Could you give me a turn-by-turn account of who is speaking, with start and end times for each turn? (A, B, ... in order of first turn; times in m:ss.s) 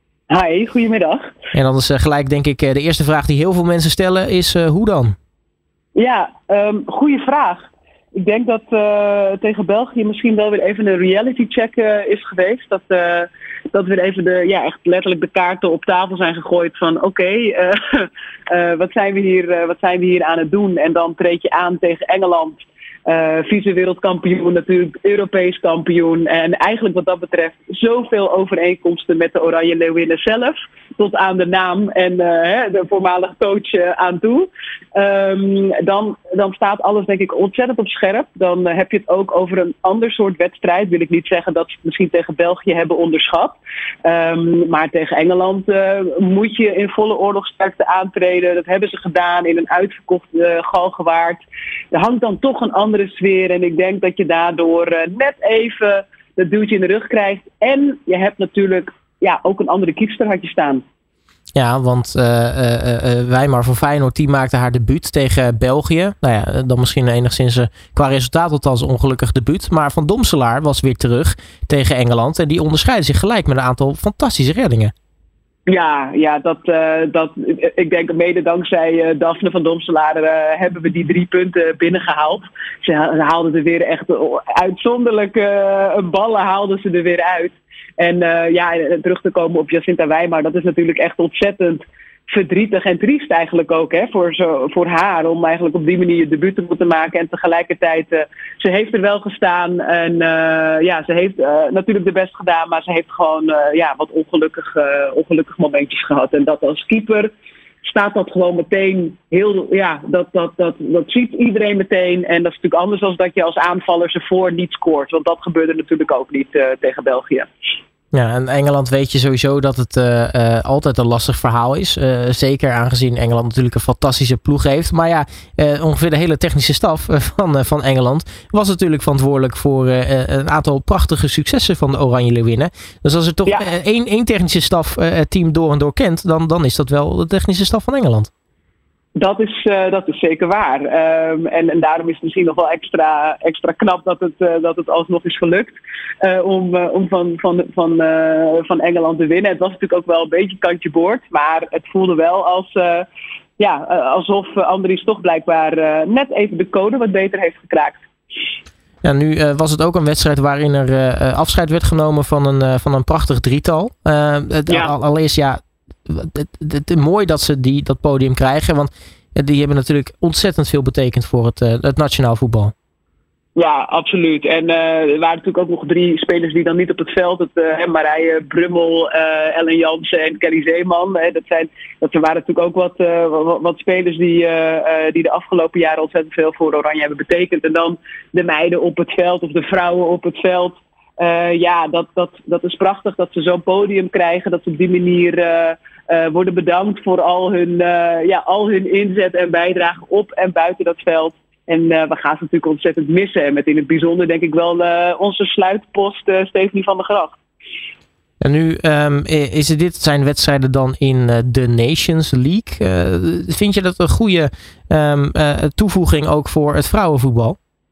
0:00.3-0:01.3 A
0:01.5-0:05.1 B
0:05.9-1:00.8 A
1:01.6-1:14.9 B
1:15.7-1:47.3 A
1:47.8-1:57.5 A
1:58.1-2:18.3 B
2:19.1-2:33.0 A
2:33.6-2:38.0 A
2:39.0-2:52.7 B
2:53.6-3:27.4 A
3:28.4-3:37.6 B